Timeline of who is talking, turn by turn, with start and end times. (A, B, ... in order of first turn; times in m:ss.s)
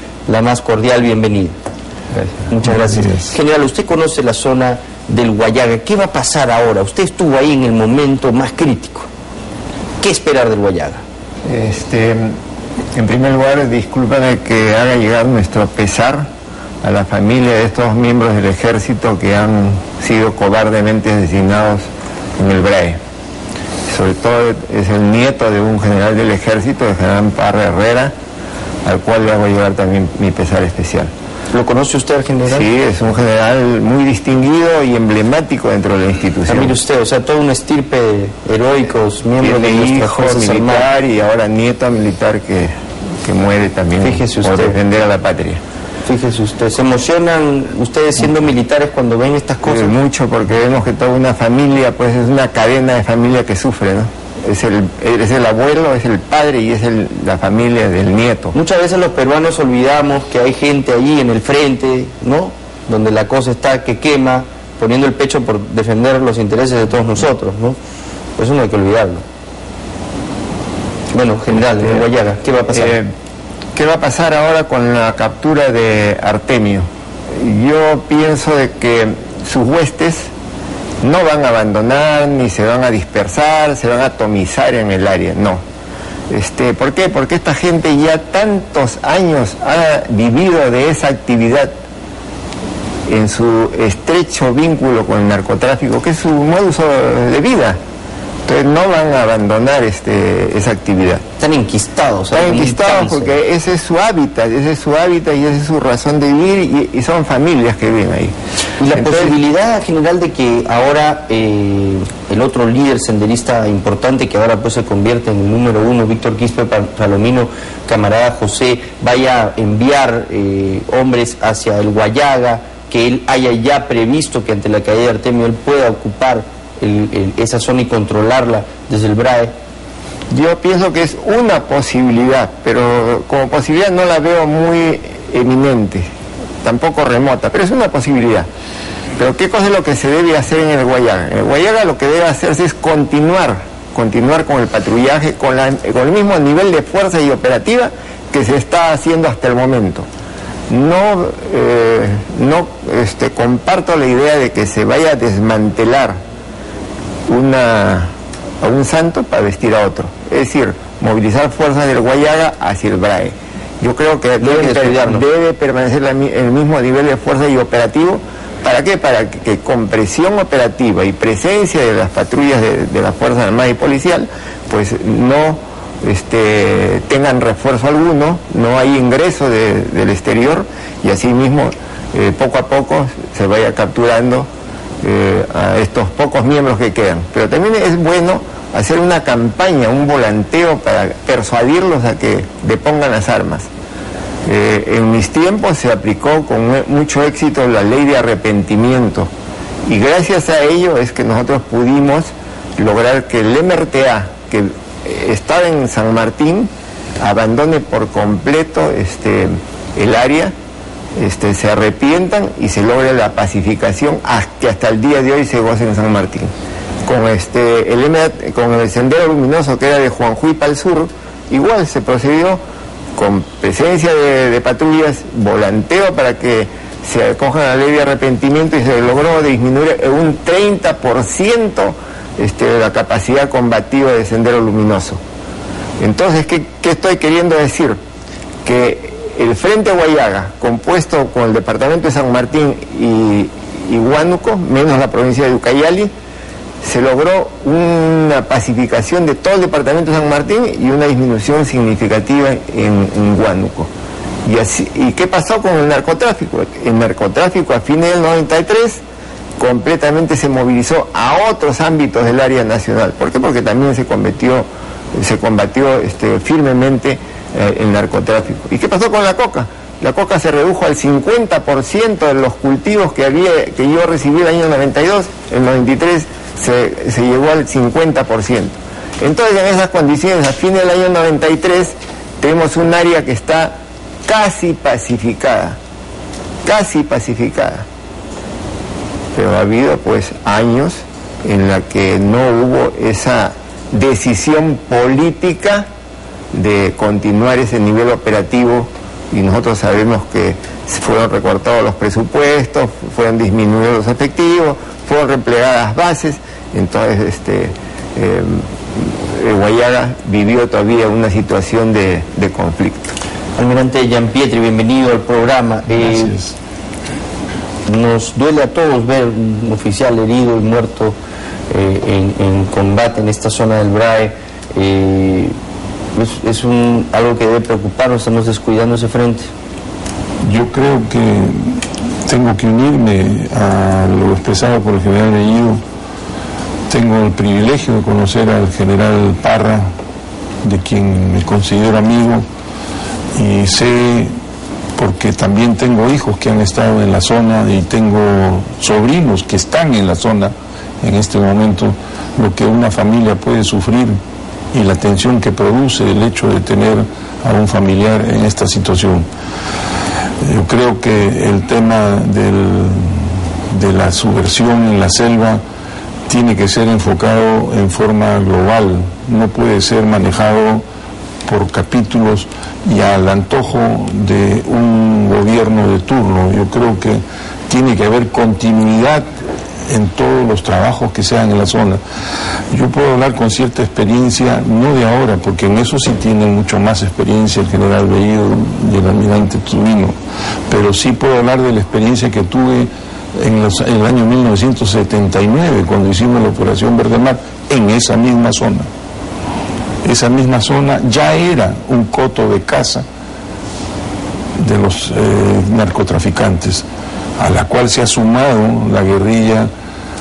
0:00.2-0:01.6 A
0:02.5-0:09.1 A
0:10.0-0:11.0 A
0:11.5-0:12.4 B
0:13.0-0:16.3 B
0:16.8-0:21.9 B
0:22.4-0:23.0 B
0:23.9-0:28.1 B
0:28.8-0:31.1 B
0:31.5-0:32.7 A
0:32.5-0:36.8 B
0:36.5-0:40.9 A
0:39.4-0:42.7 B
0:43.2-0:45.6 B
0:44.0-0:44.8 A
0:46.0-0:49.9 A
0:49.6-0:58.6 B
0:58.5-1:07.8 A
1:08.4-1:09.2 A
1:11.1-1:13.0 A
1:12.7-1:13.1 B
1:13.7-1:16.9 B
1:17.4-1:20.3 B
1:21.0-1:25.6 B
1:26.3-1:31.7 B
1:33.1-1:37.8 B
1:38.5-1:41.2 B
1:41.4-1:43.3 A
1:42.3-1:48.3 B
1:48.8-2:09.5 A
1:49.0-1:49.3 B
2:10.3-2:16.1 B
2:16.6-2:18.5 B
2:19.2-2:30.1 B
2:30.7-2:36.2 B
2:37.3-3:04.5 B
2:44.4-2:45.2 A
3:05.0-3:13.7 B
3:14.5-3:19.3 B
3:19.9-3:26.7 B
3:27.2-3:30.5 B
3:31.2-3:36.5 B
3:37.1-3:42.6 B
3:43.2-3:55.2 B
3:56.0-3:58.0 B
3:58.6-4:06.1 B
4:06.8-4:13.9 B
4:14.4-4:19.0 B
4:19.6-4:45.8 B
4:46.6-4:47.9 B
4:49.4-4:55.9 B
4:56.5-5:13.1 B
5:13.6-5:16.4 A
5:17.9-5:21.2 A
5:21.7-5:25.6 A
5:26.2-5:29.5 A
5:30.4-5:35.8 C
5:36.9-5:39.9 C
5:40.6-5:42.4 C
5:43.3-5:44.3 C
5:45.0-5:54.2 C
5:54.7-5:59.3 C
6:00.4-6:05.6 C
6:06.3-6:10.8 C
6:11.4-6:19.3 C
6:19.9-6:22.0 C
6:22.7-6:30.2 C
6:30.7-6:38.9 C
6:40.0-6:43.1 C
6:44.6-6:46.9 C
6:47.4-6:49.7 C